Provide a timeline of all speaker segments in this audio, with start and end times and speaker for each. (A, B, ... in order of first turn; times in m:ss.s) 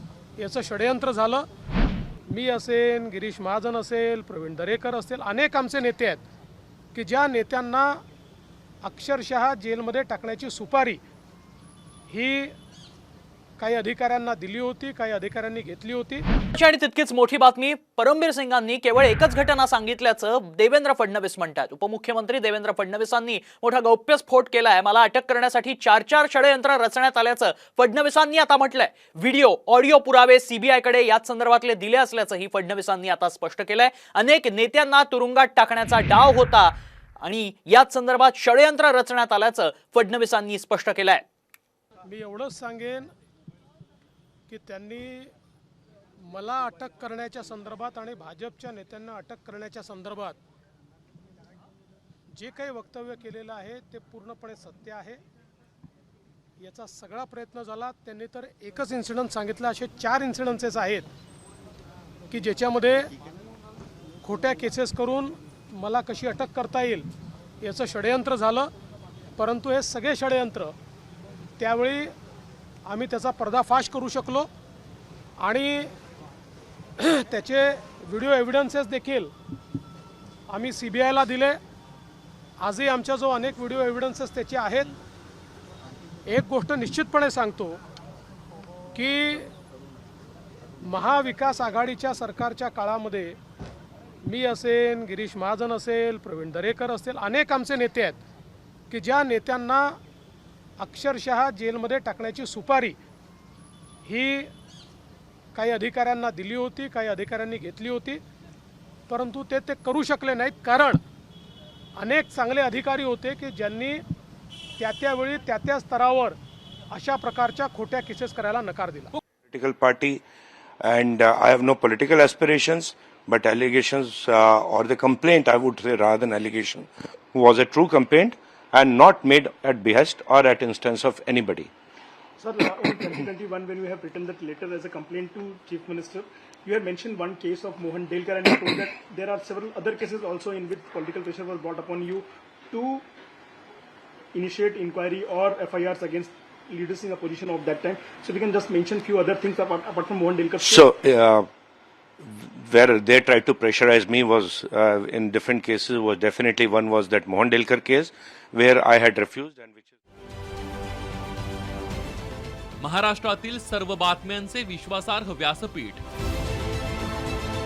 0:00.4-0:01.4 A
0:02.3-0:06.2 A
0:06.9-0:08.0 A
0:08.8-0:11.0 A
0:12.1-0:12.5 A
0:13.6-0:16.2 A
0:16.5-0:41.2 B
0:42.0-0:43.1 A
0:44.5-0:45.3 A
0:46.2-0:50.4 A
0:52.3-0:55.2 A
0:56.6-1:01.1 A
1:02.3-1:03.1 A
1:04.2-1:07.1 A
1:07.6-1:08.7 A
1:09.4-1:10.7 A
1:11.6-1:12.1 A
1:12.8-1:14.5 A
1:15.4-1:15.9 A
1:17.0-1:19.3 A
1:20.5-1:21.6 A
1:22.6-1:24.9 A
1:26.3-1:27.8 A
1:28.9-1:29.5 A
1:30.8-1:33.4 A
1:34.2-1:38.2 A
1:38.9-1:40.0 A
1:40.8-1:43.0 A
1:44.0-1:44.5 A
1:45.5-1:48.2 A
1:49.1-1:51.0 A
1:52.0-1:54.0 A
1:54.8-1:56.4 A
1:56.9-1:59.1 A
1:59.5-2:00.2 C
2:00.8-2:11.7 C
2:12.4-2:23.0 D
2:24.3-2:30.9 D
2:30.6-2:31.4 C
2:32.2-2:39.9 C
2:42.8-2:46.0 E